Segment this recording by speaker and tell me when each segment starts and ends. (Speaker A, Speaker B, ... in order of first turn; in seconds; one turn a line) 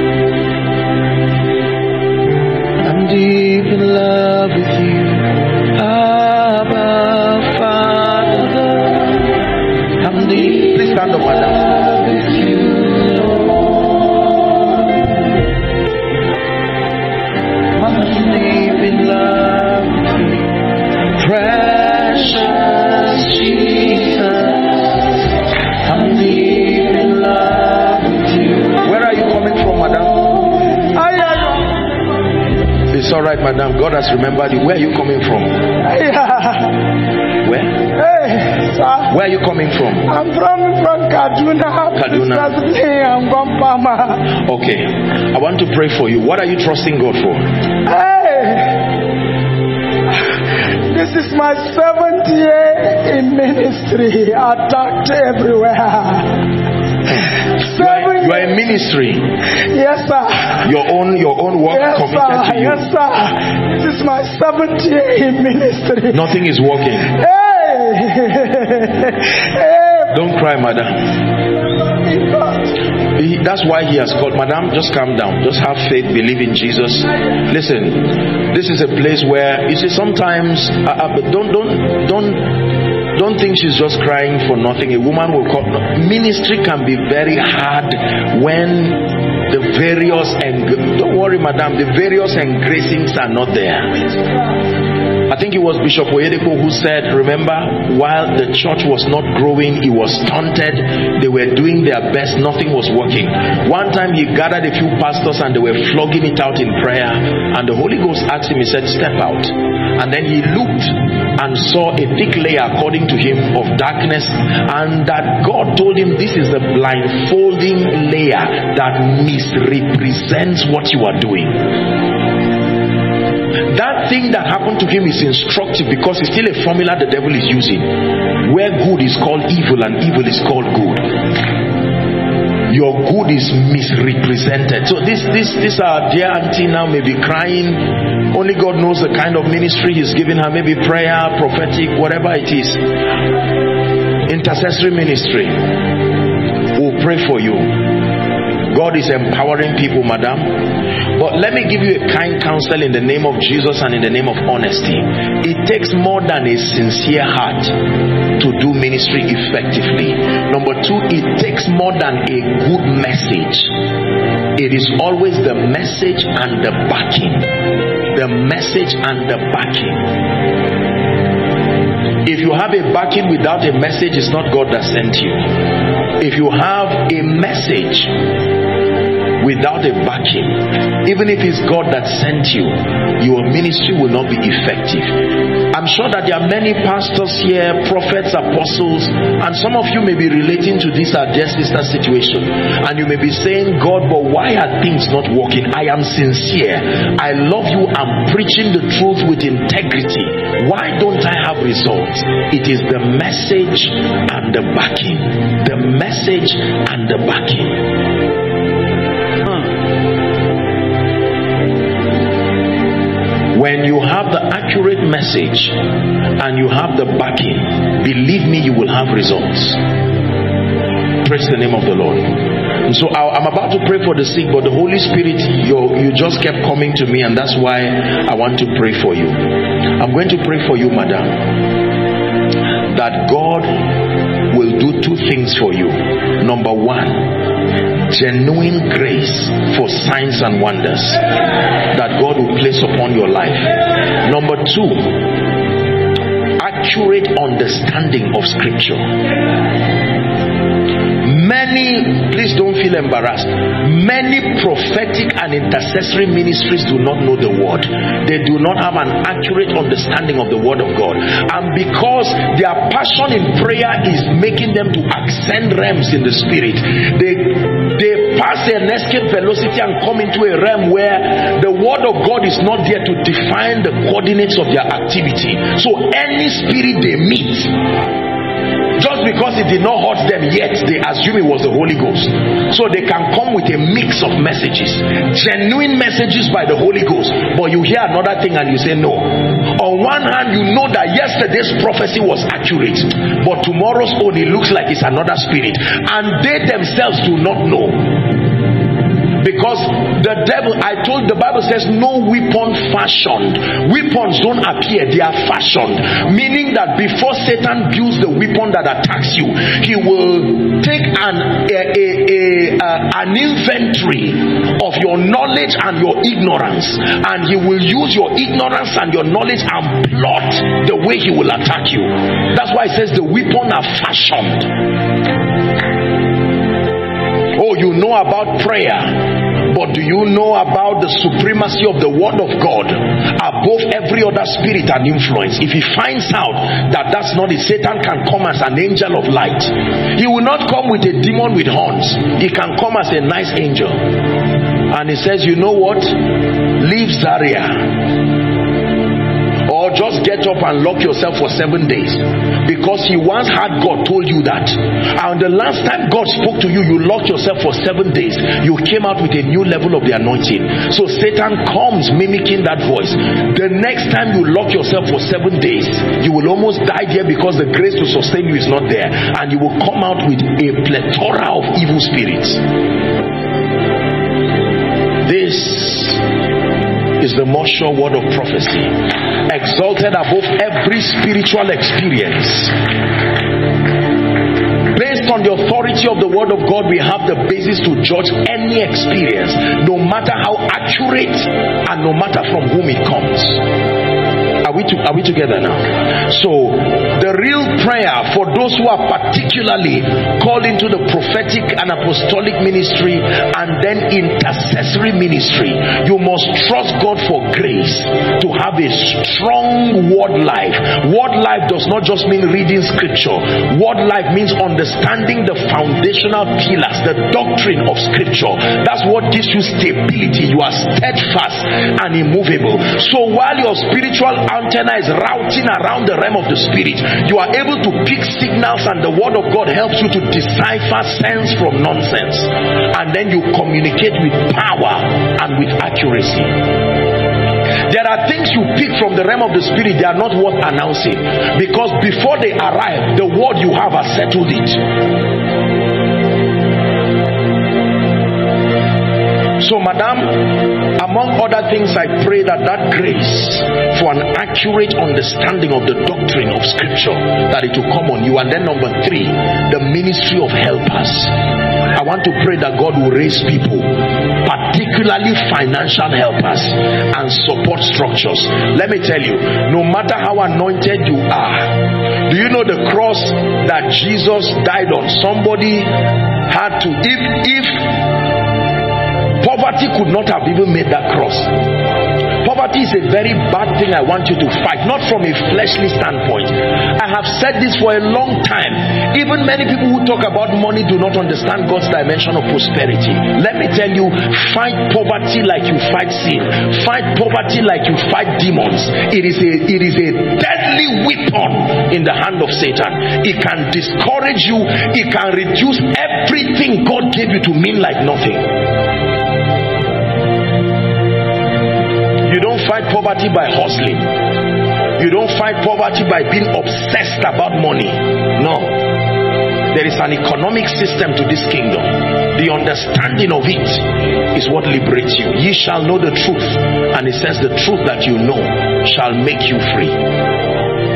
Speaker A: 2.8-9.2
Speaker A: 10.0-13.9
Speaker A: 17.8-20.2
Speaker A: 21.2-25.2
Speaker A: 25.9-30.3
Speaker B: 30.9-31.8
Speaker A: 32.9-35.6
Speaker B: 35.8-36.8
Speaker A: 37.4-37.8
Speaker B: 38.0-39.1
Speaker A: 39.1-40.1
Speaker B: 40.0-44.2
Speaker A: 42.0-42.5
Speaker A: 44.4-47.5
Speaker B: 47.9-48.8
Speaker B: 50.9-56.3
Speaker B: 57.6-58.5
Speaker A: 57.6-59.3
Speaker B: 59.7-60.6
Speaker A: 60.6-62.9
Speaker B: 61.7-66.3
Speaker A: 66.1-67.1
Speaker B: 67.1-70.1
Speaker A: 70.1-71.1
Speaker B: 72.0-72.6
Speaker A: 73.2-82.5
Speaker A: 83.1-94.2
Speaker A: 95.3-121.7
Speaker A: 123.7-131.1
Speaker A: 132.7-142.8
Speaker A: 144.3-145.6
Speaker A: 146.7-147.8
Speaker A: 148.7-157.8
Speaker A: 158.4-163.7
Speaker A: 164.6-167.5
Speaker A: 168.1-170.1
Speaker A: 172.2-175.5
Speaker A: 176.2-178.1
Speaker A: 179.4-185.2
Speaker A: 185.7-207.9
Speaker A: 213.5-215.8
Speaker A: 216.4-219.8
Speaker A: 221.2-231.5
Speaker A: 232.9-233.9
Speaker A: 234.5-237.4
Speaker A: 238.1-241.2
Speaker A: 241.9-243.7
Speaker A: 244.2-245.2
Speaker A: 246.6-249.1
Speaker A: 251.2-277.7
Speaker A: 279.0-298.1
Speaker A: 299.4-324.7
Speaker A: 327.6-344.0
Speaker A: 344.9-346.2
Speaker A: 346.8-347.9
Speaker A: 349.7-372.6
Speaker A: 375.2-376.2
Speaker A: 377.2-378.9
Speaker A: 379.5-382.8
Speaker A: 384.9-393.6
Speaker A: 394.6-436.5
Speaker A: 437.9-444.8
Speaker A: 449.6-461.3
Speaker A: 461.9-463.9
Speaker A: 464.4-475.9
Speaker A: 476.5-477.9
Speaker A: 479.4-481.5
Speaker A: 482.4-508.5
Speaker A: 512.3-514.1
Speaker A: 515.0-518.8
Speaker A: 519.7-530.0